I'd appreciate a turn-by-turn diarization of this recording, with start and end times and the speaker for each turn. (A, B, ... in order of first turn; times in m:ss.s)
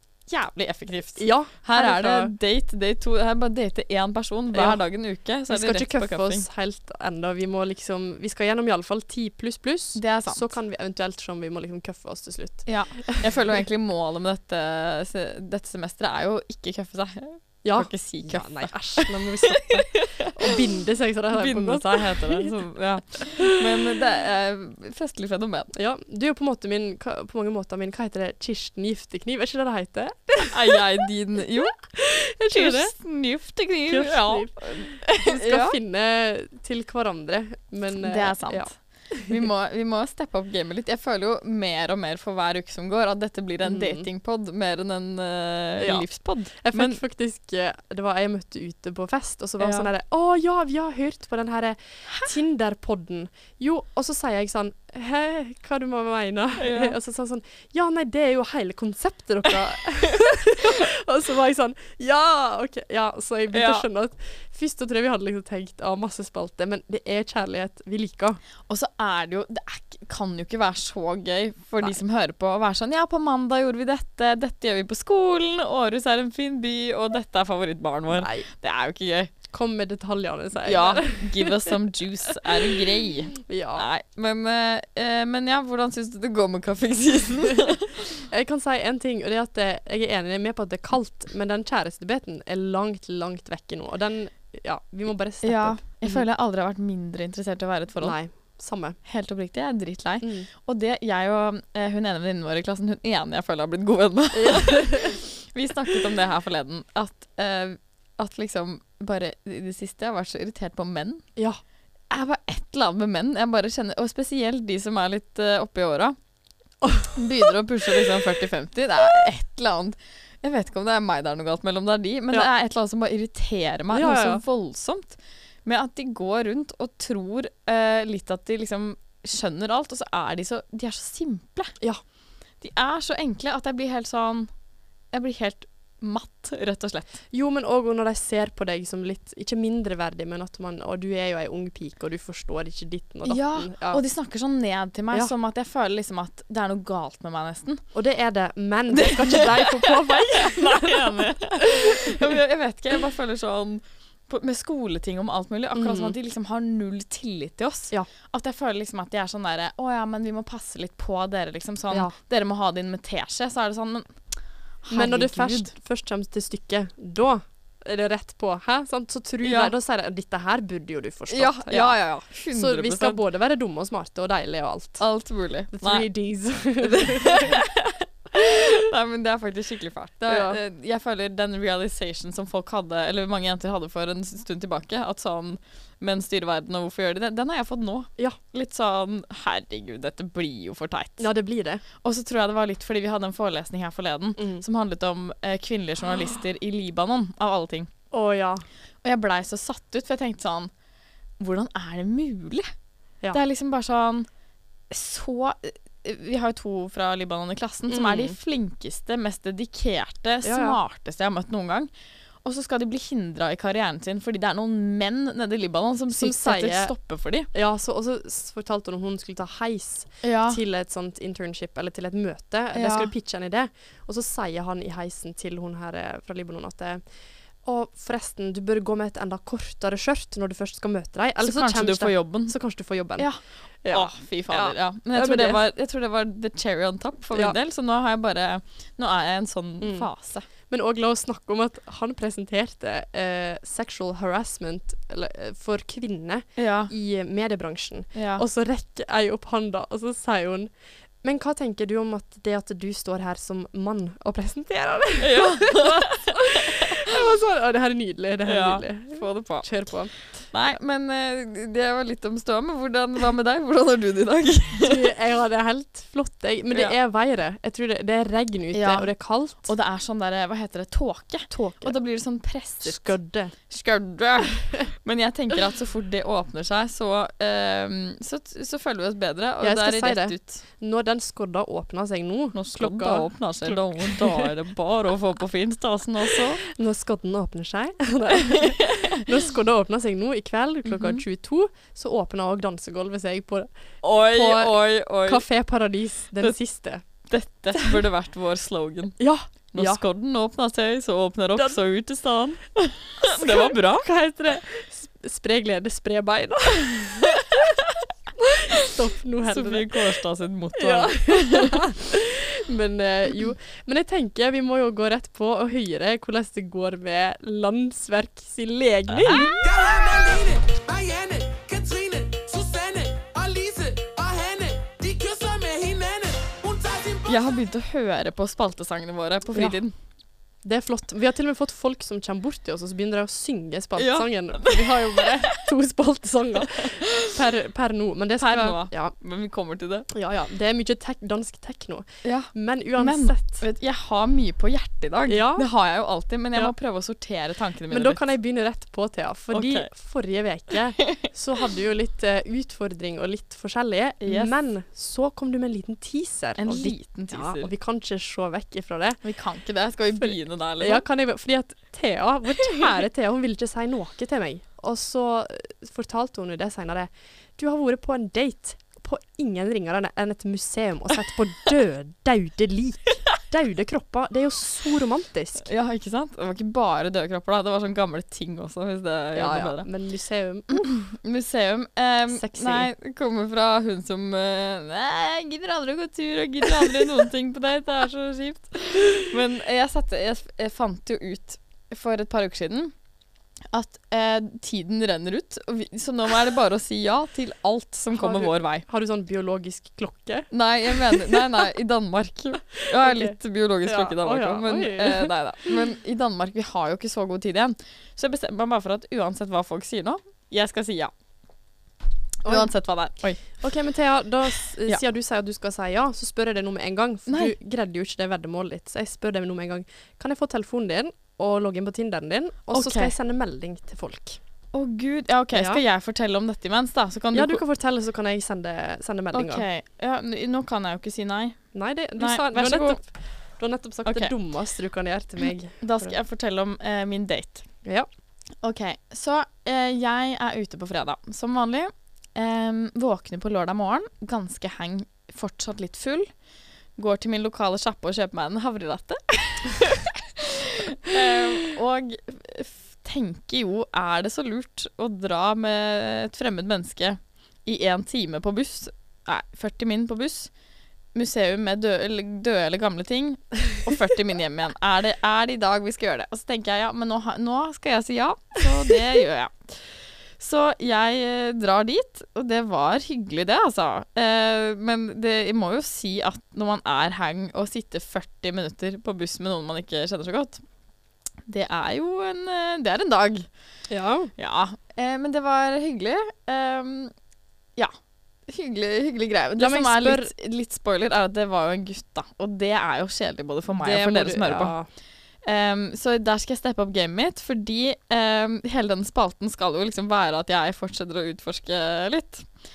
0:00.3-0:06.4 A
0:01.2-0:02.3 B
0:04.5-0:04.8 B
0:05.5-0:13.2 B
0:09.9-0:10.5 A
0:12.6-0:20.3 A
0:17.6-0:22.5 B
0:21.3-0:25.7 A
0:25.7-0:30.8 B
0:30.5-0:31.7 A
0:31.9-0:32.9 B
0:32.5-0:35.8 A
0:33.9-0:38.7 B
0:38.0-0:47.0 A
0:43.6-0:44.1 B
0:45.8-1:08.4 B
0:49.6-0:49.9 A
0:56.6-0:56.9 A
1:03.5-1:03.8 A
1:08.7-1:19.3 A
1:18.1-1:18.5 B
1:19.5-1:21.7 B
1:20.6-1:28.0 A
1:23.4-1:23.8 B
1:28.3-1:36.2 B
1:35.4-1:38.2 A
1:38.0-1:39.0 B
1:39.0-1:51.2 A
1:40.2-1:40.5 B
1:44.3-1:45.2 B
1:52.1-1:56.2 A
1:56.8-1:57.1 B
1:57.1-2:11.7 A
2:03.9-2:04.4 B
2:12.6-2:14.5 A
2:15.1-2:17.2 A
2:17.3-2:24.0 B
2:23.2-2:27.8 A
2:27.9-2:32.2 B
2:28.9-2:44.1 A
2:35.7-2:36.1 B
2:41.9-2:42.2 B
2:44.8-2:45.7 A
2:44.9-2:52.0 B
2:49.4-2:49.7 A
2:51.3-2:53.2 A
2:52.5-2:55.0 B
2:55.0-2:56.1 A
2:55.7-2:57.5 B
2:56.8-3:11.3 A
3:00.3-3:00.6 B
3:11.2-3:11.8 B
3:12.0-3:17.9 A
3:14.4-3:14.6 B
3:18.1-3:18.6 B
3:19.0-3:20.7 A
3:21.4-3:22.7 A
3:23.3-3:24.3 A
3:24.9-3:31.9 A
3:27.9-3:28.4 B
3:30.4-3:30.8 B
3:32.4-3:37.5 A
3:36.1-3:36.9 B
3:37.5-3:47.0 B
3:40.2-3:40.6 A
3:42.7-3:43.1 A
3:47.6-3:53.3 B
3:51.4-3:52.5 A
3:53.2-4:00.4 A
3:53.8-3:55.6 B
3:59.8-4:00.1 B
4:00.7-4:10.7 B
4:06.6-4:06.9 A
4:08.1-4:08.4 A
4:11.2-4:20.1 B
4:15.2-4:16.9 A
4:18.4-4:19.7 A
4:20.5-4:25.0 A
4:24.8-4:29.7 B
4:28.7-4:29.1 A
4:29.6-4:33.2 A
4:31.5-4:31.9 B
4:32.8-4:33.5 B
4:33.7-4:40.6 A
4:39.6-4:44.4 B
4:42.5-4:46.6 A
4:46.7-4:53.7 B
4:50.8-4:51.2 A
4:54.0-4:55.4 A
4:54.2-4:57.0 B
4:57.3-4:59.2 A
4:59.2-5:00.0 B
4:59.7-5:04.0 A
5:03.2-5:07.6 B
5:08.4-5:09.9 B
5:09.4-5:11.9 A
5:10.8-5:19.6 B
5:19.2-5:19.6 A
5:19.6-5:27.5 C
5:27.3-5:29.9 A
5:29.5-5:29.8 B
5:30.6-5:39.1 B
5:34.0-5:35.3 A
5:38.4-5:40.1 A
5:40.1-5:43.6 B
5:42.2-5:48.2 A
5:45.3-5:45.7 B
5:47.9-5:59.2 B
5:49.5-5:49.9 A
5:54.2-5:54.5 A
5:56.6-5:57.7 A
5:59.2-6:01.0 A
6:00.2-6:15.7 B
6:15.6-6:19.9 A
6:19.3-6:20.9 B
6:20.7-6:32.9 A
6:22.3-6:22.9 B
6:33.7-6:38.8 A
6:38.1-6:41.5 B
6:40.5-6:51.1 A
6:42.8-6:45.8 B
6:52.4-6:53.6 A
6:52.4-6:52.7 B
6:53.5-7:04.4 B
6:57.3-6:57.5 A
7:02.7-7:03.1 A
7:04.7-7:07.6 A
7:05.5-7:05.8 B
7:07.3-7:09.6 B
7:09.3-7:11.6 A
7:11.7-7:16.1 B
7:12.2-7:13.0 A
7:14.0-7:14.3 A
7:15.8-7:17.6 A
7:18.6-7:26.3 A
7:27.0-7:40.5 A
7:41.1-7:49.8 A
7:50.4-8:00.6 A
8:01.4-8:03.5 A
8:03.9-8:04.3 B
8:04.4-8:07.1 A
8:08.5-8:14.7 A
8:09.6-8:10.3 B
8:13.7-8:14.9 B
8:15.4-8:22.5 A